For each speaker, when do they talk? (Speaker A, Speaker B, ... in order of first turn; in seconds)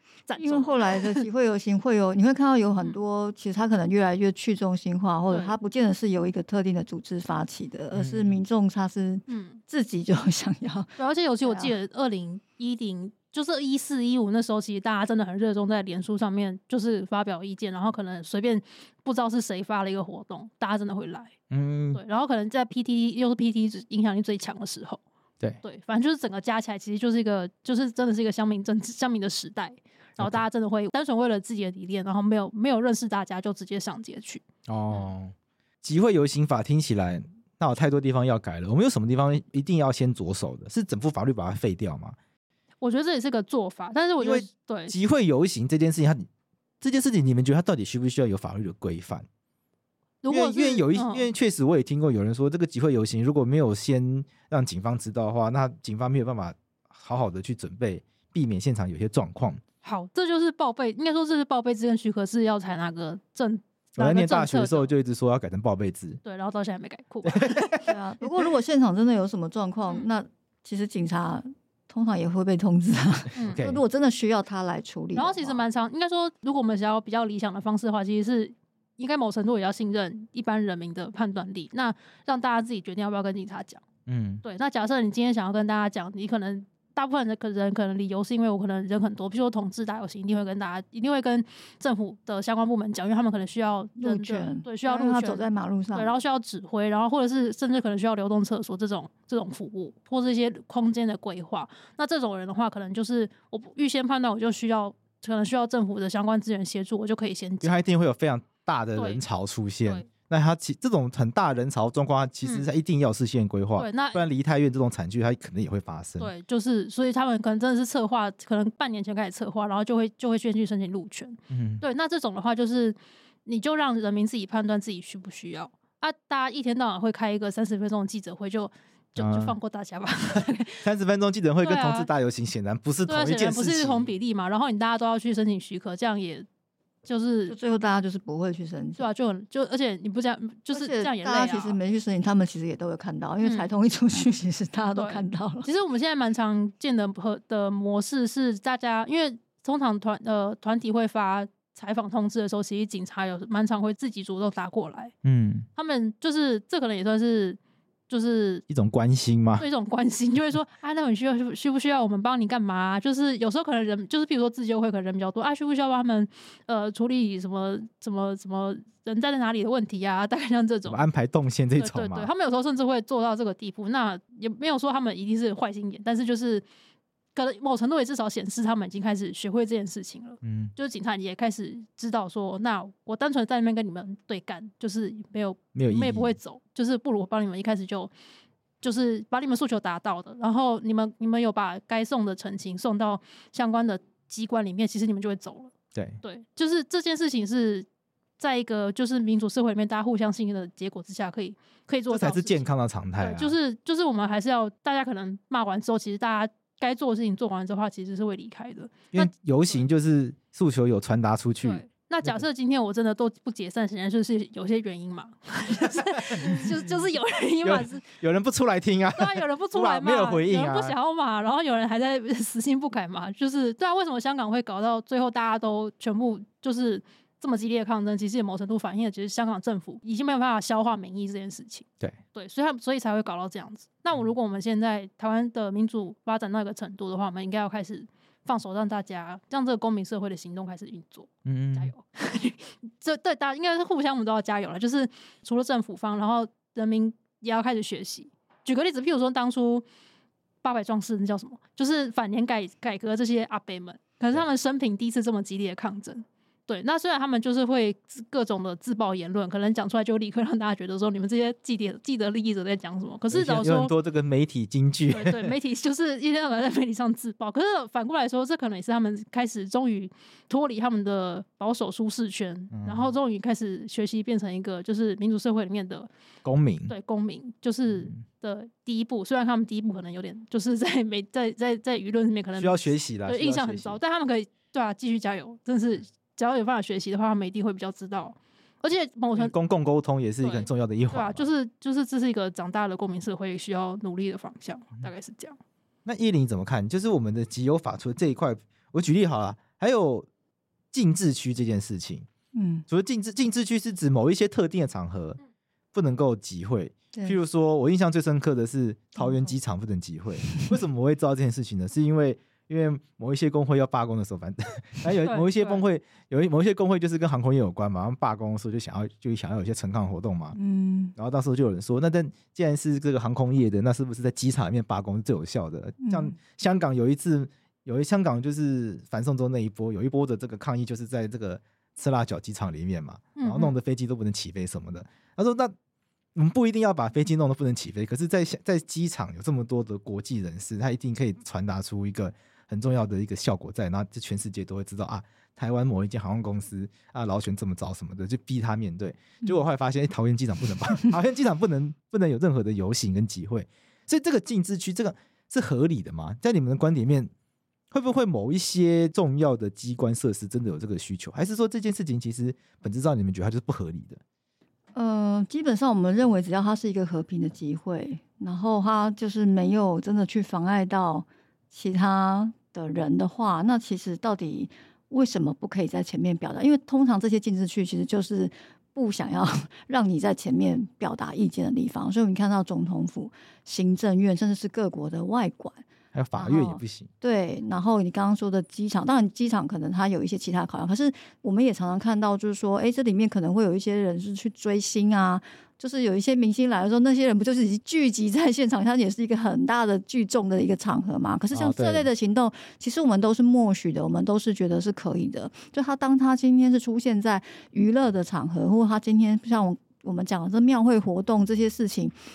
Speaker A: 0.3-1.2, 9.3-9.6, 11.0-21.3, 21.9-25.0, 25.6-35.1, 42.8-44.9, 50.2-51.3, 59.8-64.9, 66.2-67.9, 75.2-83.8, 84.4-107.8, 109.0-109.2, 113.8-114.2, 116.2-130.9, 131.6-132.1, 133.1-136.5, 137.1-137.6, 139.0-141.8, 143.4-143.7, 144.9-155.1, 155.8-158.7, 159.6-171.0, 171.8-176.7, 177.3-188.1, 188.8-197.9, 198.4-209.9, 211.6-218.0, 219.2-249.9, 250.6-263.9, 265.1-276.1, 276.9-289.5, 290.4-295.6, 315.2-315.8, 333.4-333.8
Speaker B: 0.4-11.7, 67.9-75.6, 94.0-96.1, 137.5-139.1, 140.7-145.7, 302.5-302.9, 320.6-321.1, 326.0-326.4, 364.9-385.9, 386.4-412.1
Speaker C: 7.9-8.4, 21.5-22.0, 30.2-30.4, 34.7-42.2, 44.2-46.3, 46.8-49.3, 50.3-59.6, 64.0-66.2, 67.2-67.8, 73.4-73.8, 84.1-84.4, 107.6-116.3, 121.5-121.8, 129.2-129.6, 130.3-134.1, 155.2-155.7, 158.7-159.7, 170.9-172.3, 180.4-180.7, 185.8-186.3, 202.1-203.6, 209.1-212.4, 216.3-216.6, 217.6-221.0, 241.5-241.9, 263.3-265.5, 272.7-273.1, 276.4-276.9, 277.9-278.2, 282.6-284.0, 289.4-291.5, 296.1-300.3, 300.9-302.3, 302.9-305.4, 305.9-320.6, 321.1-335.7, 336.4-357.3, 357.9-364.2, 386.1-387.1, 401.5-402.1